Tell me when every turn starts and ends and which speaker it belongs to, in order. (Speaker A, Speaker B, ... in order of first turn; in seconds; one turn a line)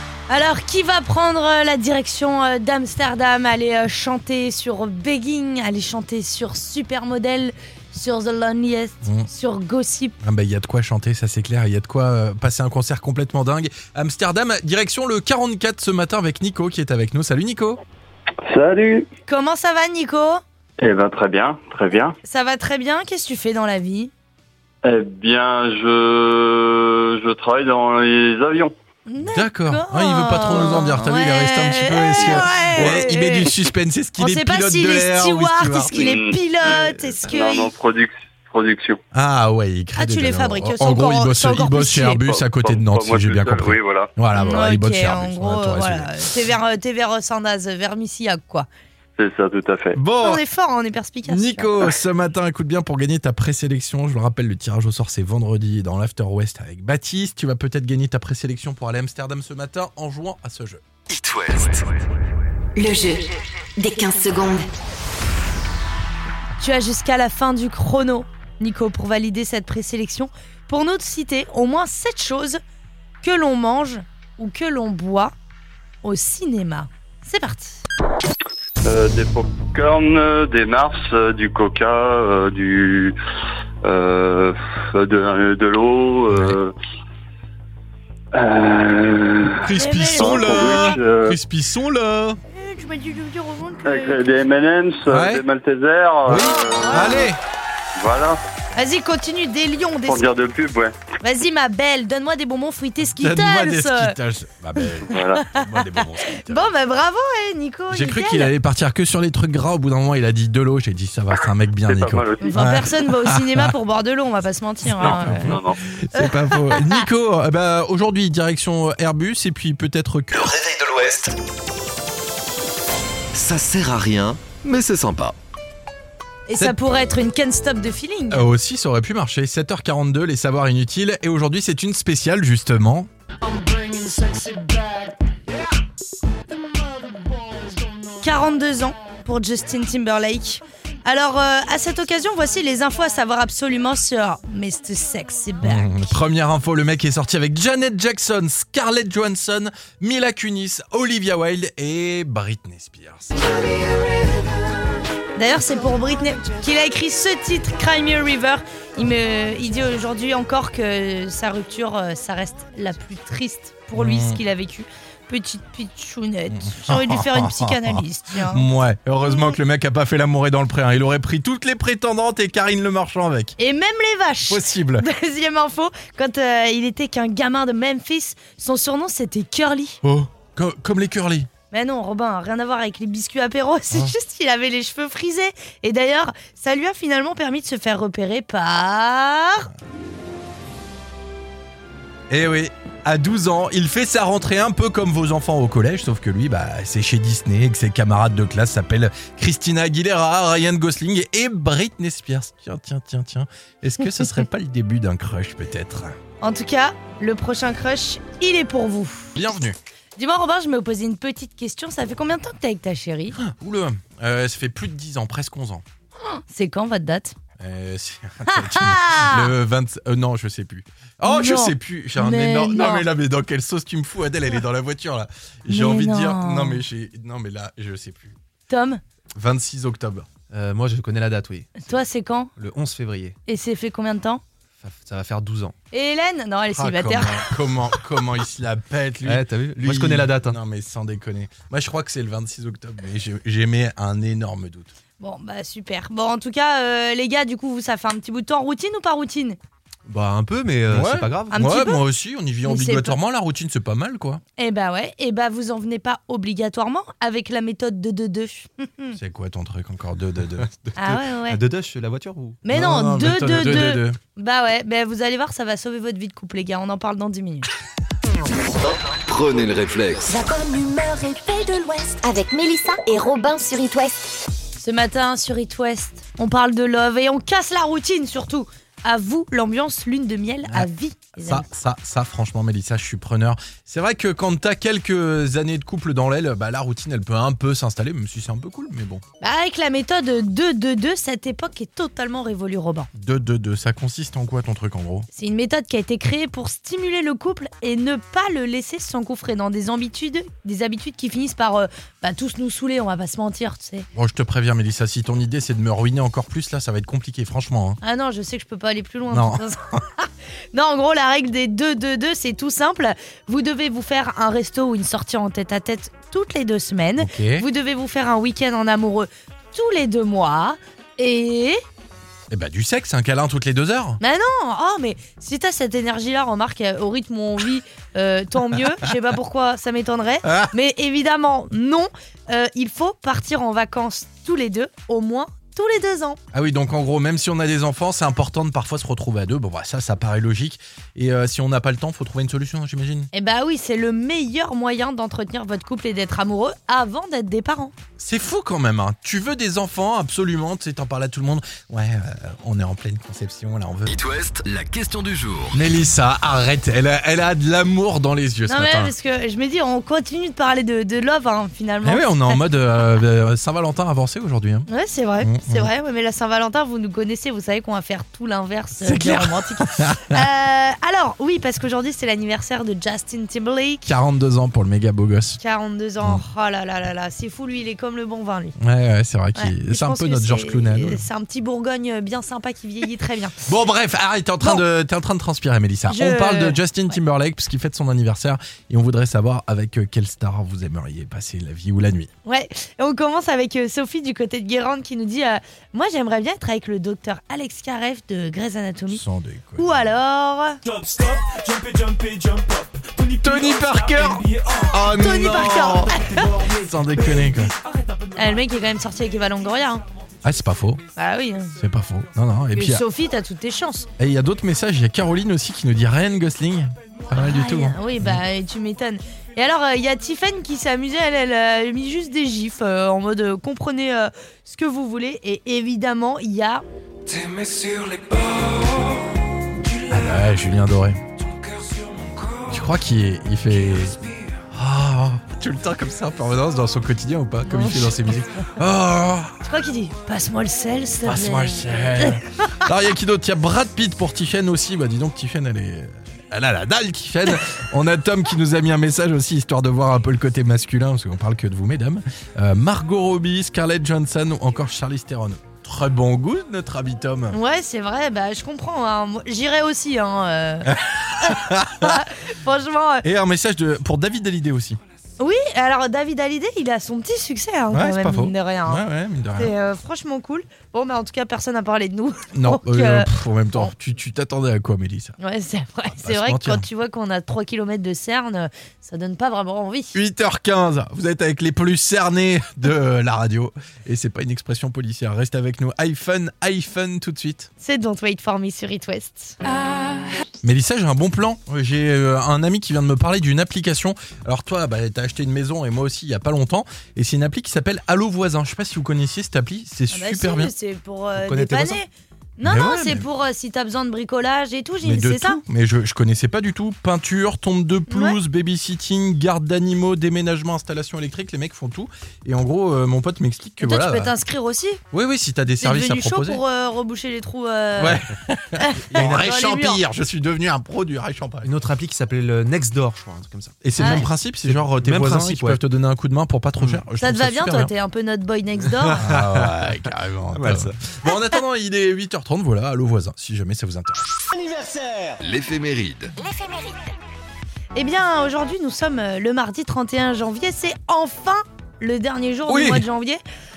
Speaker A: 0.3-10.2
Speaker B: 9.0-9.3
Speaker B: 10.2-17.8
Speaker C: 18.4-19.1
Speaker A: 19.3-20.4
Speaker C: 20.8-22.2
Speaker A: 22.2-24.1
Speaker C: 24.8-28.7
Speaker A: 29.1-33.5
Speaker B: 29.2-37.2
Speaker C: 32.2-32.9
Speaker A: 34.2-37.7
Speaker C: 35.9-39.0
Speaker B: 39.1-46.2
Speaker A: 40.0-42.2
Speaker C: 42.3-44.1
Speaker A: 44.4-48.7
Speaker C: 49.2-50.0
Speaker B: 49.9-50.4
Speaker A: 50.2-51.7
Speaker B: 51.3-60.8
Speaker D: 61.1-61.9
Speaker E: 62.8-64.7
Speaker A: 66.6-72.6
Speaker A: 73.2-75.3
Speaker A: 76.0-77.8
Speaker C: 78.8-83.2
Speaker C: 83.8-86.7
Speaker B: 86.3-86.6
Speaker C: 88.3-91.4
Speaker B: 89.6-92.4
Speaker A: 89.7-91.0
Speaker A: 92.5-94.2
Speaker C: 93.8-97.3
Speaker B: 95.1-95.4
Speaker B: 96.3-97.4
Speaker A: 96.3-97.3
Speaker C: 98.0-98.4
Speaker A: 98.8-100.3
Speaker C: 100.1-101.0
Speaker A: 101.2-104.2
Speaker B: 103.1-106.7
Speaker C: 105.1-105.4
Speaker A: 105.1-108.5
Speaker B: 107.9-113.7
Speaker C: 111.9-112.8
Speaker A: 112.4-115.6
Speaker B: 114.8-120.5
Speaker C: 115.0-115.8
Speaker A: 116.1-117.0
Speaker D: 120.3-121.4
Speaker D: 123.3-125.4
Speaker A: 126.5-128.5
Speaker B: 128.3-133.1
Speaker A: 138.2-146.0
Speaker B: 145.6-153.5
Speaker A: 155.4-168.7
Speaker B: 163.9-164.4
Speaker B: 166.5-173.6
Speaker A: 173.6-180.0
Speaker B: 174.5-175.1
Speaker B: 180.0-181.5
Speaker A: 181.7-189.7
Speaker B: 192.3-206.2
Speaker A: 206.4-209.4
Speaker B: 209.4-209.8
Speaker A: 210.2-213.4
Speaker B: 213.3-215.8
Speaker A: 216.2-217.4
Speaker B: 217.6-228.4
Speaker A: 218.5-219.5
Speaker A: 221.2-223.1
Speaker A: 225.7-226.8
Speaker A: 228.7-229.0
Speaker B: 229.3-230.3
Speaker F: 230.5-232.0
Speaker A: 231.8-232.5
Speaker F: 232.6-233.4
Speaker A: 233.5-234.4
Speaker F: 234.8-235.7
Speaker A: 235.9-237.5
Speaker B: 236.7-244.9
Speaker F: 239.2-240.6
Speaker A: 245.2-249.6
Speaker F: 250.1-251.5
Speaker B: 250.9-254.4
Speaker A: 251.5-252.0
Speaker A: 252.6-253.2
Speaker A: 254.6-259.2
Speaker B: 259.2-260.7
Speaker A: 261.0-261.6
Speaker F: 261.1-262.6
Speaker A: 262.6-267.7
Speaker B: 262.7-264.2
Speaker D: 268.8-270.3
Speaker E: 270.3-274.4
Speaker A: 274.8-281.7
Speaker B: 281.4-289.2
Speaker A: 289.4-293.1
Speaker B: 293.1-295.3
Speaker A: 295.3-304.1
Speaker B: 304.1-308.0
Speaker A: 308.0-321.8
Speaker B: 309.3-310.0
Speaker B: 317.2-317.7
Speaker B: 322.5-324.2
Speaker A: 324.2-336.4
Speaker B: 330.4-330.7
Speaker B: 336.5-343.3
Speaker A: 343.3-347.9
Speaker B: 348.2-354.1
Speaker D: 354.1-355.8
Speaker B: 355.7-359.1
Speaker A: 358.7-362.6
Speaker B: 362.0-364.9
Speaker A: 364.9-374.1
Speaker B: 365.4-365.9
Speaker B: 369.0-370.5
Speaker B: 374.1-375.6
Speaker A: 375.6-378.8
Speaker B: 378.8-381.2
Speaker A: 379.6-383.6
Speaker B: 383.6-392.3
Speaker A: 386.1-386.8
Speaker A: 392.5-399.2
Speaker B: 399.1-400.0
Speaker A: 399.8-400.8
Speaker F: 400.8-408.6
Speaker B: 403.4-407.7
Speaker A: 405.1-406.5
Speaker A: 408.4-410.0
Speaker B: 410.4-411.0
Speaker A: 411.1-411.7
Speaker B: 411.8-413.0
Speaker A: 412.7-414.1
Speaker B: 414.2-418.4
Speaker A: 417.3-426.8
Speaker F: 427.2-430.4
Speaker B: 430.1-431.2
Speaker F: 431.4-432.8
Speaker B: 432.7-434.2
Speaker B: 434.7-439.6
Speaker A: 437.7-438.7
Speaker A: 439.6-442.8
Speaker B: 441.2-457.6
Speaker A: 457.5-463.3
Speaker B: 460.9-462.3
Speaker B: 463.2-465.0
Speaker A: 465.4-469.0
Speaker B: 467.9-469.7
Speaker A: 469.6-473.9
Speaker B: 472.5-475.4
Speaker A: 475.4-480.2
Speaker B: 476.2-476.9
Speaker B: 480.1-487.7
Speaker A: 487.8-489.6
Speaker B: 490.6-500.7
Speaker A: 500.1-505.6
Speaker F: 501.4-502.0
Speaker B: 502.6-503.3
Speaker B: 505.0-514.3
Speaker A: 508.1-508.4
Speaker A: 513.8-515.0
Speaker B: 515.1-516.6
Speaker A: 515.8-518.2
Speaker B: 518.0-521.7
Speaker A: 518.8-520.0
Speaker F: 521.6-525.8
Speaker B: 523.8-527.9
Speaker A: 524.0-524.2
Speaker A: 527.2-529.2
Speaker B: 529.1-534.4
Speaker F: 529.3-529.7
Speaker F: 530.5-531.0
Speaker D: 535.4-536.3
Speaker E: 536.4-537.1
Speaker A: 538.0-543.4
Speaker B: 542.7-543.1